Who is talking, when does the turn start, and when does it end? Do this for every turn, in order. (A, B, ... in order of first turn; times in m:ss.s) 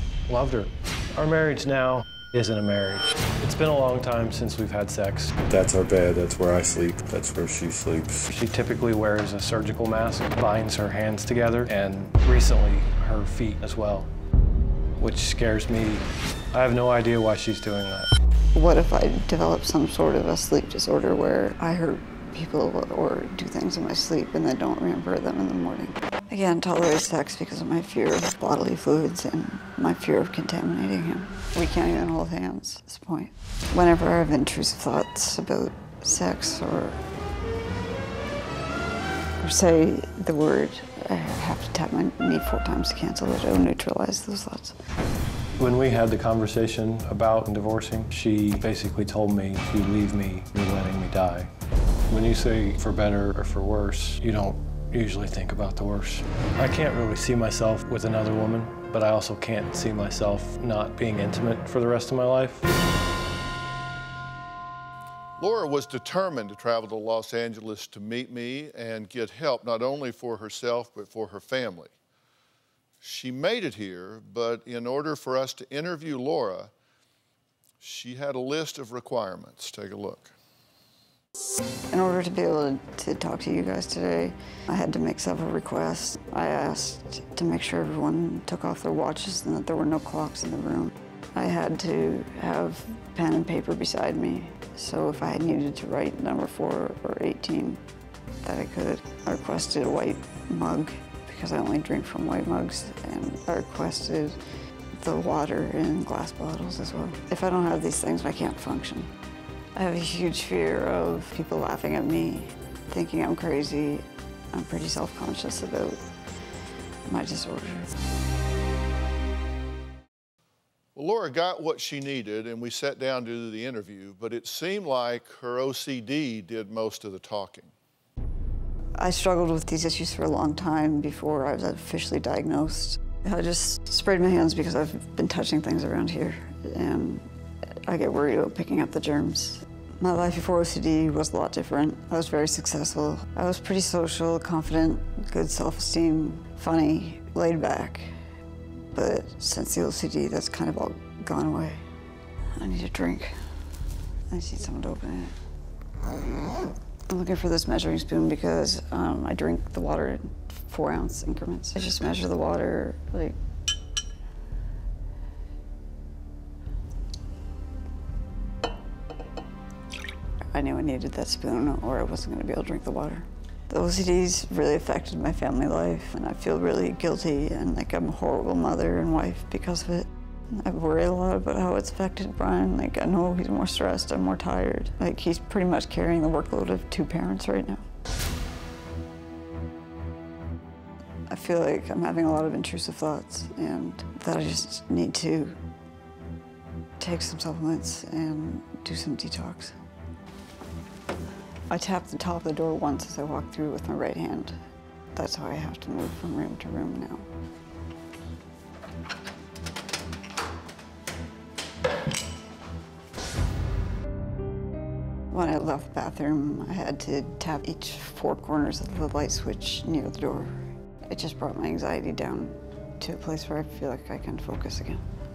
0:00.3-0:05.3 A
0:05.5-0:08.2 B
0:08.3-0:14.1 A
0:15.0-0:18.1 A
0:18.5-0:37.0 C
0:39.4-0:44.8 C
0:45.6-0:51.5 A
0:52.1-1:02.6 A
1:05.4-1:11.9 D
1:13.0-1:16.7 D
1:17.8-1:20.3 D
1:21.9-1:37.8 C
1:38.4-1:44.4 C
1:45.0-1:49.1 C
1:49.8-1:56.1 C
1:57.0-1:57.9 C
2:00.9-2:07.7 D
2:09.0-2:17.2 C
2:17.9-2:28.1 C
2:28.9-2:31.8 C
2:32.6-2:33.4 C
2:34.3-2:35.3 C
2:37.1-2:43.4 C
2:50.5-3:07.8 C
3:11.3-3:15.6 C
3:17.0-3:19.7 C
3:21.7-3:24.5 C
3:25.1-3:27.3 C
3:35.3-3:45.0 C